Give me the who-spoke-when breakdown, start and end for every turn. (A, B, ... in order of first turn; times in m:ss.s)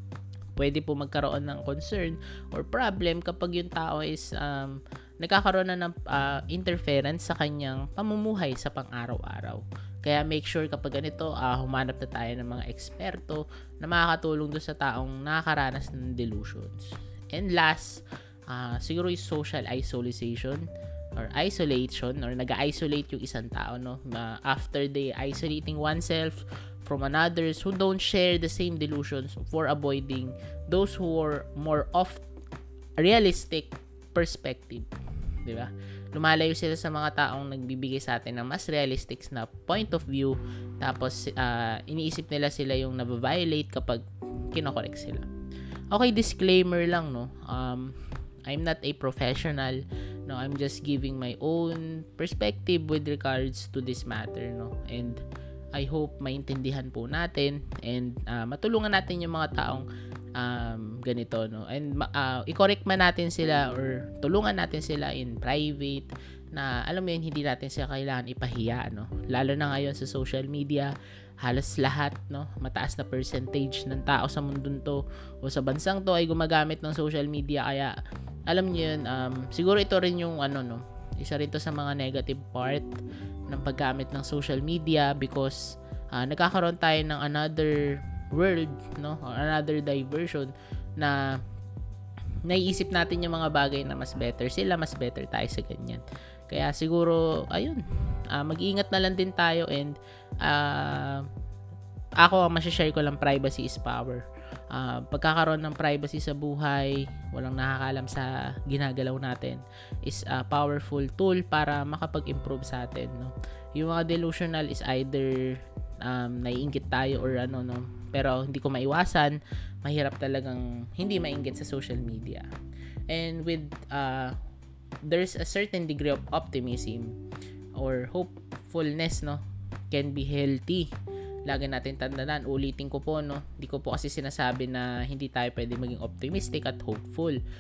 0:00.6-0:32.2 A
0:33.0-0:34.9 A
0:35.4-0:45.3 A
0:45.9-0:55.2 A
0:55.7-1:18.0 A
1:18.5-1:22.9 A
1:23.5-1:31.4 A
1:32.5-1:41.3 A
1:42.2-2:02.5 A
2:03.1-2:04.4 A
2:05.0-2:07.2 A
2:07.8-2:10.9 A
2:11.5-2:17.4 A